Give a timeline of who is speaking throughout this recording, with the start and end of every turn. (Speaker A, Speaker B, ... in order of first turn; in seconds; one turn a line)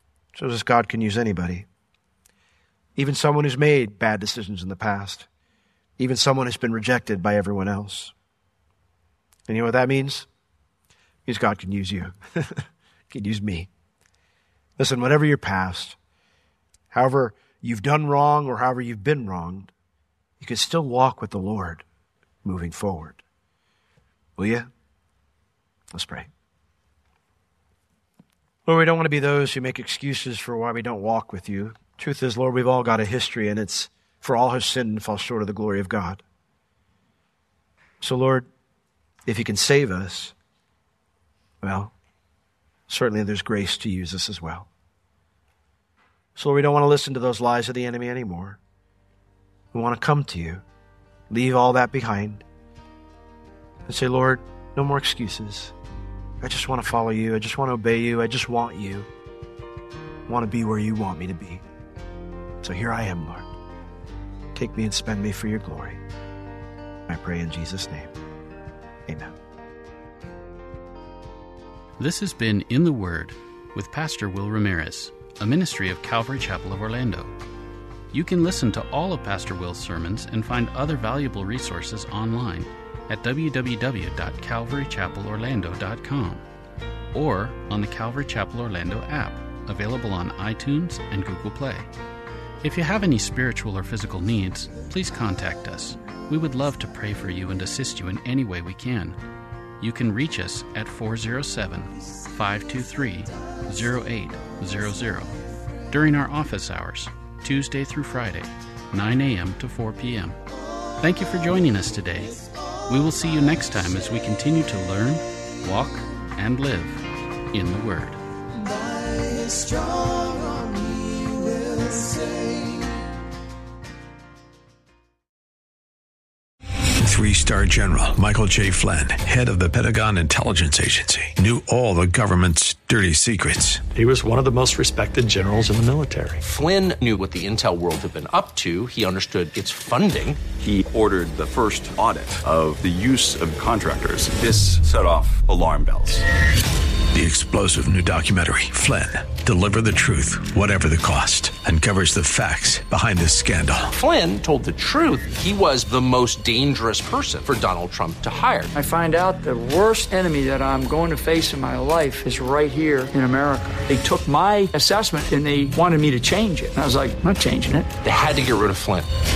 Speaker A: 0.3-1.7
Speaker A: 3.0-5.3
Speaker A: 6.0-8.1
Speaker A: 9.5-10.3
Speaker A: 11.3-13.7
Speaker A: 14.8-16.0
Speaker A: 16.9-19.7
Speaker A: 20.4-21.8
Speaker A: 22.4-23.2
Speaker A: 24.4-24.7
Speaker A: 25.9-26.3
Speaker A: 28.7-36.2
Speaker A: 38.0-38.5
Speaker A: 39.3-40.3
Speaker A: 41.6-41.9
Speaker A: 42.9-44.7
Speaker A: 46.4-48.6
Speaker A: 49.7-50.6
Speaker A: 51.3-52.4
Speaker A: 53.9-55.7
Speaker A: 56.4-59.1
Speaker A: 60.3-61.6
Speaker A: 62.6-63.5
Speaker A: 64.5-66.0
Speaker A: 67.1-68.1
Speaker A: 69.1-69.4
Speaker B: 72.0-77.3
Speaker B: 78.1-86.4
Speaker B: 87.1-91.9
Speaker B: 92.6-99.2
Speaker B: 99.8-105.4
Speaker B: 105.9-110.4
Speaker B: 111.0-118.2
Speaker C: 121.7-122.1
Speaker D: 127.0-133.8
Speaker E: 133.9-136.4
Speaker F: 136.4-140.4
Speaker G: 140.6-146.2
Speaker D: 147.1-153.9
Speaker F: 153.9-158.7
Speaker C: 158.7-167.9
Speaker F: 168.0-169.1